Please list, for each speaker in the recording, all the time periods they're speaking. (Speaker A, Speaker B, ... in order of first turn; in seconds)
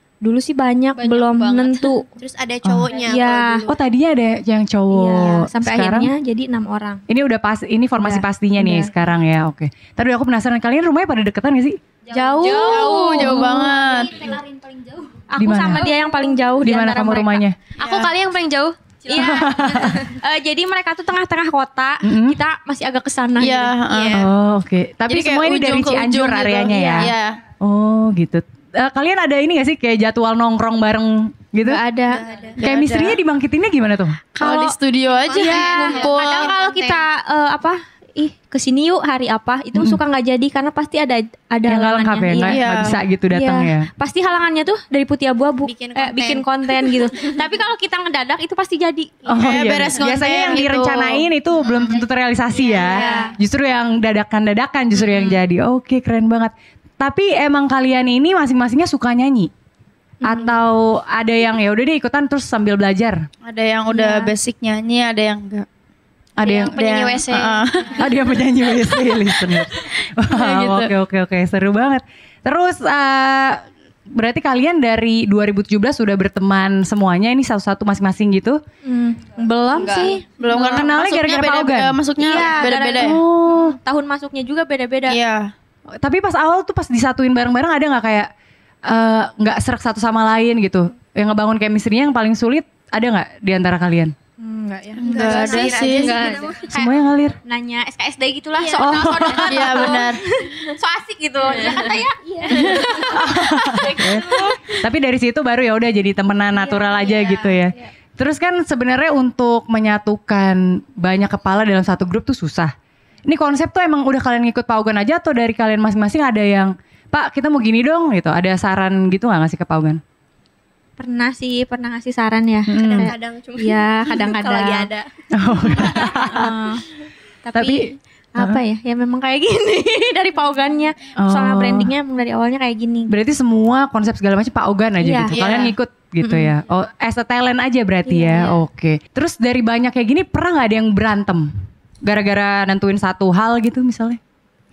Speaker A: 0.2-2.1, 3.0-3.7, 4.9-7.0, 8.0-8.9, 12.1-13.8, 15.3-17.4, 19.1-23.9, 26.7-27.1, 31.6-32.2, 34.4-34.8, 35.3-49.3, 52.6-53.3, 60.2-60.6, 63.9-64.3, 78.8-80.2, 82.2-85.2, 94.4-104.8, 106.5-107.7, 121.0-124.9, 125.6-126.8, 127.5-133.1, 135.0-135.4, 136.2-136.5, 138.1-138.6
Speaker B: 0.9-2.0, 12.2-13.3, 17.8-18.8, 66.4-67.9, 95.2-96.6, 101.5-101.9
Speaker C: 2.1-3.7, 13.9-14.3, 32.1-32.6, 35.1-37.0, 45.6-47.2, 52.6-53.3, 95.2-96.5, 122.7-125.1
Speaker D: 2.6-2.9, 3.7-6.1, 7.1-11.8, 15.4-15.9, 16.6-17.6, 19.1-20.1, 22.0-22.4, 24.1-31.8, 32.6-34.3, 41.7-43.9, 49.3-59.5, 60.2-63.3, 66.4-66.7, 68.0-78.6, 79.8-82.0, 83.0-83.8, 86.0-88.3, 88.8-94.1, 96.7-97.4, 98.8-99.7, 103.1-112.7, 113.3-120.0, 122.7-123.1, 125.3-126.5, 127.5-128.6, 131.2-131.9, 133.1-141.5, 142.0-144.2
Speaker E: 12.1-14.4, 17.8-18.1, 23.4-24.3, 25.1-27.4, 32.5-33.2, 34.4-36.6, 42.5-43.0, 49.3-52.0, 55.0-55.4, 63.4-65.7, 66.7-68.1, 69.1-69.5, 70.3-70.9, 79.9-83.2, 85.1-85.5, 95.0-96.2, 99.5-100.2, 102.5-102.9, 135.3-135.8